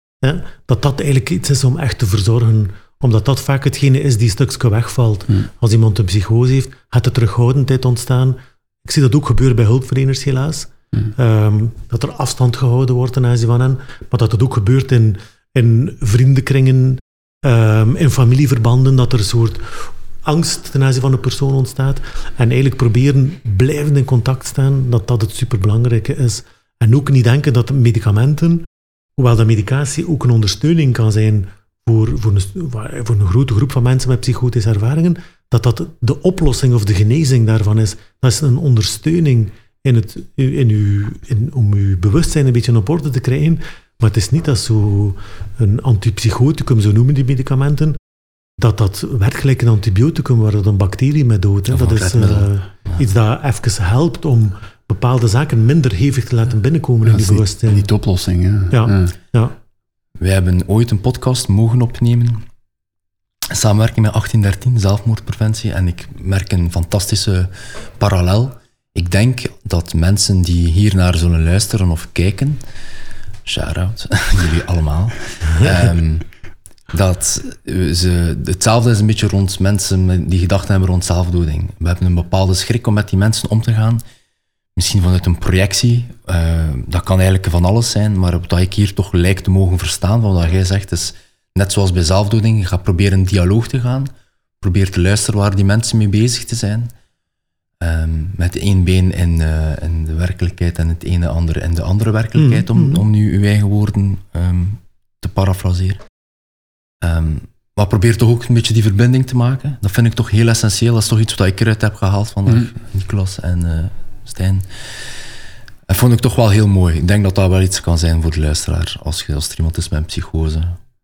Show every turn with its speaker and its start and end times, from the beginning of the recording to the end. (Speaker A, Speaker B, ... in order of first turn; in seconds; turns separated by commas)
Speaker A: 0.2-28.7, Speaker A: 29.2-48.0, Speaker A: 48.6-57.9, Speaker B: 51.7-53.0, Speaker C: 57.1-59.1, Speaker A: 58.7-59.5, Speaker B: 60.2-62.4, Speaker B: 63.5-72.6, Speaker B: 73.5-76.3, Speaker B: 76.9-84.0, Speaker B: 84.8-96.9, Speaker B: 97.8-106.0, Speaker A: 102.4-103.0, Speaker B: 107.0-114.6, Speaker B: 115.9-120.8